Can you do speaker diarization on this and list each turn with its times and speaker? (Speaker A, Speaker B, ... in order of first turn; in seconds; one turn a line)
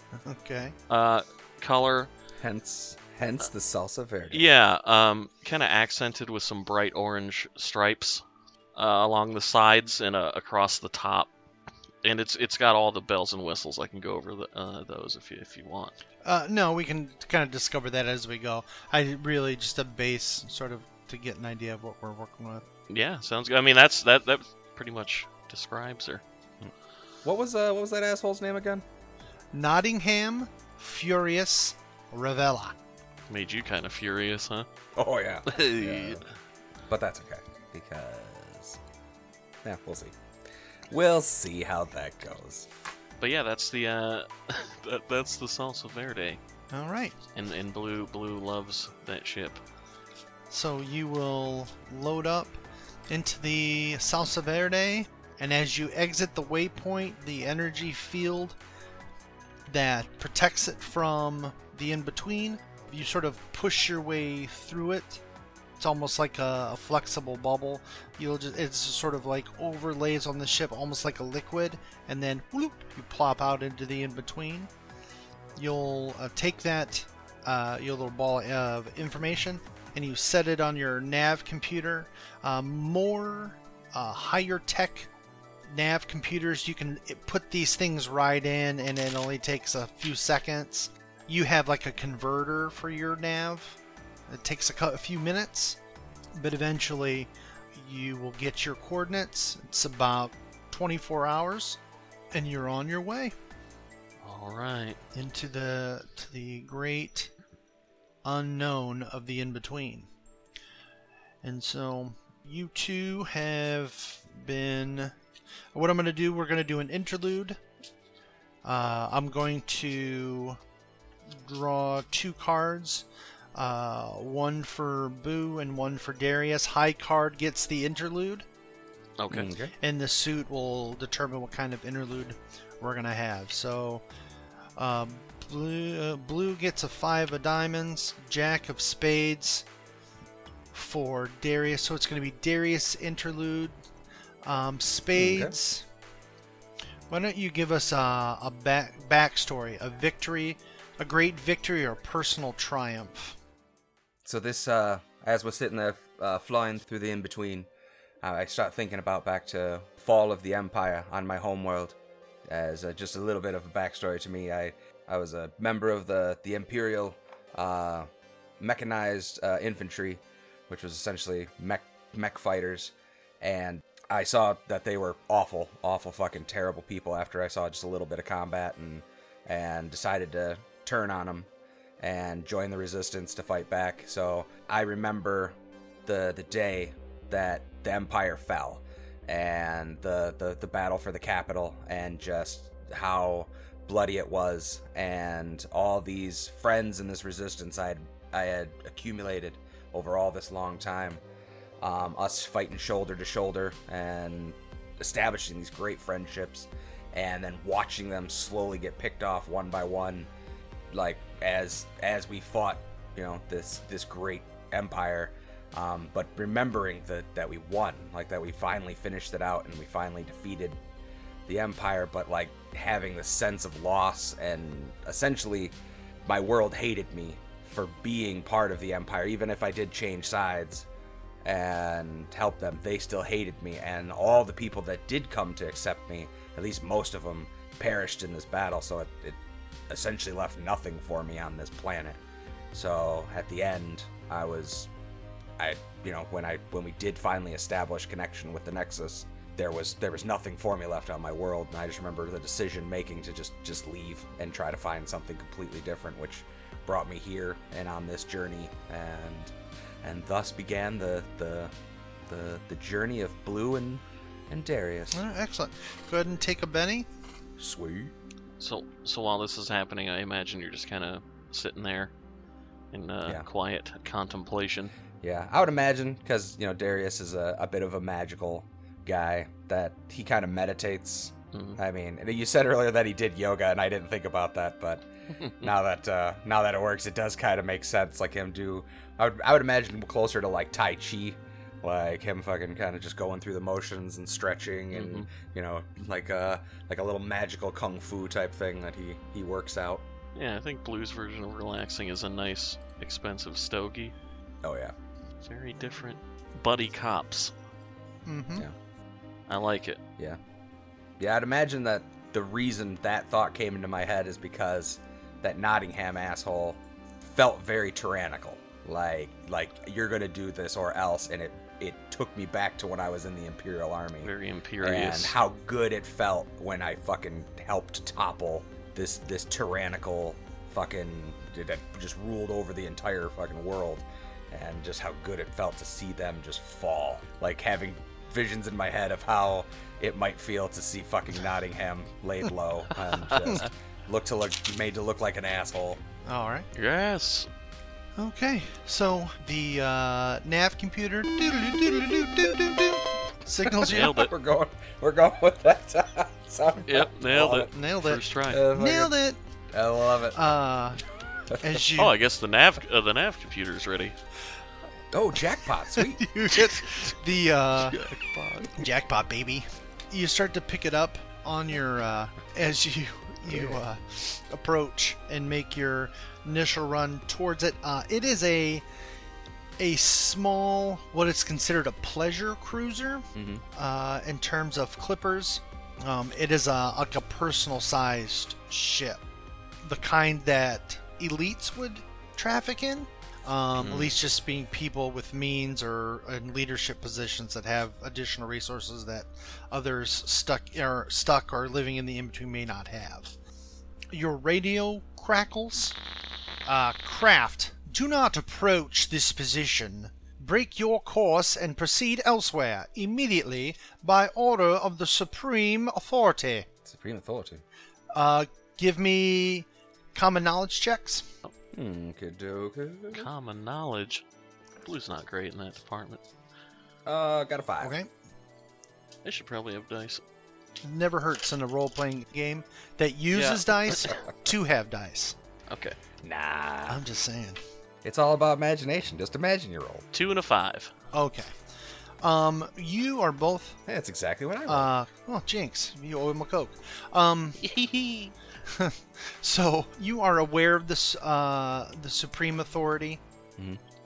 Speaker A: 0.2-0.7
Speaker B: 0.9-2.1
Speaker C: 2.4-4.5
Speaker B: 4.3-8.2
Speaker B: 8.8-11.3
Speaker B: 12.0-15.9
Speaker A: 16.2-22.6
Speaker B: 22.9-26.2
Speaker C: 27.2-28.8
Speaker A: 29.5-32.8
Speaker B: 33.3-34.6
Speaker C: 35.0-36.2
Speaker B: 35.5-36.2
Speaker C: 36.9-38.8
Speaker C: 39.6-40.1
Speaker C: 40.9-42.7
Speaker B: 43.2-46.4
Speaker A: 46.7-47.1
Speaker B: 47.3-49.6
Speaker A: 50.5-58.6
Speaker A: 59.7-65.2
Speaker A: 65.8-74.7
Speaker A: 75.6-85.1
Speaker A: 85.7-93.8
Speaker A: 94.3-95.8
Speaker A: 96.3-101.8
Speaker A: 102.3-103.3
Speaker B: 104.2-105.0
Speaker A: 105.1-107.3
Speaker A: 108.2-110.1
Speaker A: 111.4-115.1
Speaker A: 115.7-117.6
Speaker A: 118.6-120.6
Speaker A: 121.3-128.4
Speaker B: 129.2-129.5
Speaker C: 129.3-129.7
Speaker A: 129.8-134.0
Speaker A: 134.8-139.6
Speaker A: 140.7-143.8
Speaker A: 144.4-145.8
Speaker C: 145.2-145.5
Speaker A: 147.1-153.3
Speaker C: 154.2-157.7
Speaker C: 158.2-161.9
Speaker C: 162.5-181.5
Speaker C: 182.0-201.2
Speaker C: 201.8-210.3
Speaker C: 210.9-220.8
Speaker C: 221.5-230.9
Speaker C: 231.4-242.2
Speaker C: 242.7-244.9
Speaker C: 245.6-261.7
Speaker C: 262.3-265.2
Speaker A: 265.1-267.1
Speaker C: 267.6-268.1
Speaker B: 268.6-272.1
Speaker B: 272.9-274.9
Speaker C: 275.2-285.1
Speaker B: 281.5-281.8
Speaker B: 285.4-285.7
Speaker C: 285.6-300.0
Speaker B: 294.9-295.3
Speaker B: 300.3-304.1
Speaker C: 304.6-304.9
Speaker B: 305.4-307.5
Speaker A: 308.2-308.6
Speaker B: 309.5-310.0
Speaker C: 311.2-324.3
Speaker B: 324.2-325.3
Speaker C: 324.8-346.0
Speaker B: 343.2-343.7
Speaker A: 346.2-346.6
Speaker B: 346.7-347.5
Speaker A: 348.2-354.3
Speaker C: 353.6-357.7
Speaker B: 353.9-354.3
Speaker B: 356.9-358.6
Speaker A: 357.7-358.2
Speaker C: 358.5-359.1
Speaker A: 358.7-359.4
Speaker C: 359.7-360.5
Speaker A: 360.3-361.0
Speaker C: 361.5-361.8
Speaker A: 361.6-362.2
Speaker B: 361.9-364.1
Speaker C: 365.1-366.2
Speaker A: 365.9-368.0
Speaker B: 367.8-368.7
Speaker A: 368.7-378.8
Speaker C: 373.5-373.8
Speaker A: 379.8-389.2
Speaker C: 383.3-383.6
Speaker A: 389.8-403.3
Speaker B: 393.8-394.1
Speaker A: 404.1-405.9
Speaker A: 406.6-416.7
Speaker C: 416.8-417.6
Speaker A: 418.1-421.2
Speaker C: 421.7-423.3
Speaker B: 423.1-424.2
Speaker B: 424.8-426.2
Speaker C: 427.1-427.9
Speaker A: 427.8-428.1
Speaker B: 429.2-430.2
Speaker A: 430.8-435.3
Speaker B: 433.3-434.2
Speaker B: 435.7-435.9
Speaker C: 436.2-437.0
Speaker A: 436.9-437.6
Speaker C: 438.0-440.0
Speaker B: 440.1-440.9
Speaker A: 441.1-441.5
Speaker A: 442.2-443.8
Speaker C: 443.9-444.9
Speaker A: 444.7-447.6
Speaker B: 447.6-448.3
Speaker A: 448.6-453.2